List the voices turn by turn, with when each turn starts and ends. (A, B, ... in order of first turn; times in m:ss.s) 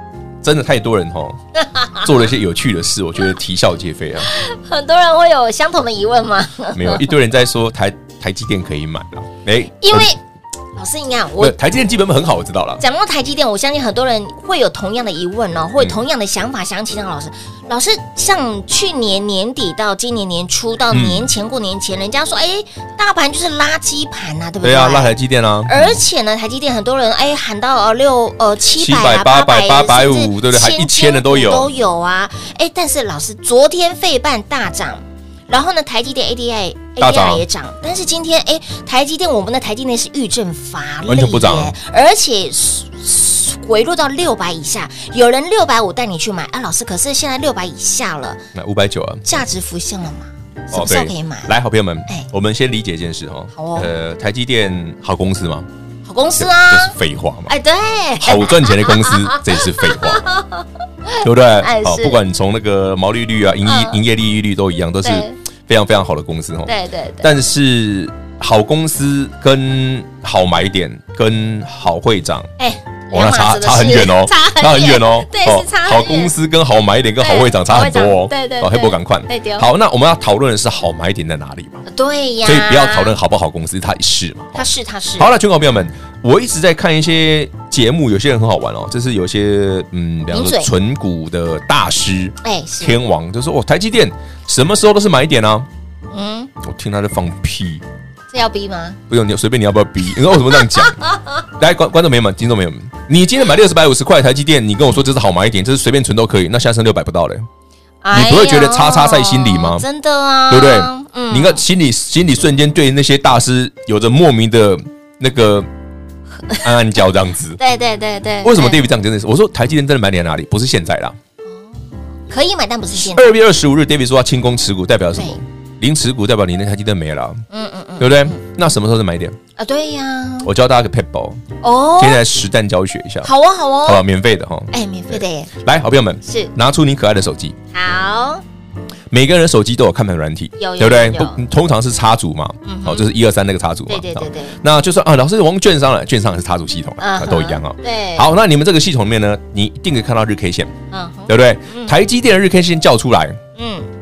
0:00.4-0:01.4 A
0:01.5-0:02.1 B
0:02.0-0:04.3 A
0:04.2-0:07.0 B
0:06.7-0:10.1 A
0:09.8-0:10.2 B
0:10.7-0:11.6 B
0:11.4-0:12.8 A
0:12.8-0:25.1 B
0:15.8-0:16.0 A
0:20.9-0:21.3 A
0:24.6-0:26.0 A
0:25.7-0:48.4 B
0:28.8-0:31.7 A
0:37.0-0:37.4 A
0:41.0-0:41.8 A
0:48.5-0:49.2 A
0:49.2-0:51.5 B
0:50.7-0:55.7 A
0:53.5-0:53.9 B
0:56.0-0:56.9 B
0:56.4-0:57.5 A
0:57.5-1:02.2 B
0:58.2-1:00.2 A
1:01.2-1:12.5 A
1:03.6-1:04.0 B
1:05.0-1:05.4 B
1:06.6-1:07.3 B
1:12.6-1:16.3 B
1:13.1-1:21.8 A
1:17.2-1:19.6 B
1:21.9-1:23.1 B
1:22.4-1:24.6 A
1:24.5-1:25.3 B
1:25.2-1:35.7 A
1:30.3-1:30.7 B
1:32.4-1:33.0 B
1:36.1-1:36.5 B
1:36.6-1:37.8 A
1:38.3-1:39.0 B
1:39.1-1:41.0 A
1:40.6-1:41.1 B
1:41.5-1:47.4 A
1:48.0-1:51.6 B
1:48.1-1:49.8 A
1:50.5-1:55.7 A
1:56.6-1:57.6 A
1:57.6-1:58.8 B
1:58.4-2:01.2 A
2:02.3-2:03.3 B
2:02.9-2:07.4 A
2:07.5-2:08.4 B
2:08.0-2:09.4 A
2:09.6-2:10.5 B
2:10.4-2:11.4 A
2:11.6-2:12.2 B
2:12.0-2:13.3 A
2:13.2-2:14.0 B
2:13.8-2:17.6 A
2:14.7-2:15.5 B
2:16.2-2:16.5 B
2:17.7-2:18.4 B
2:19.1-2:30.7 A
2:20.6-2:21.4 B
2:22.6-2:23.0 B
2:23.9-2:24.6 B
2:27.0-2:28.3 B
2:30.9-2:31.9 B
2:31.3-2:33.4 A
2:33.6-2:33.9 B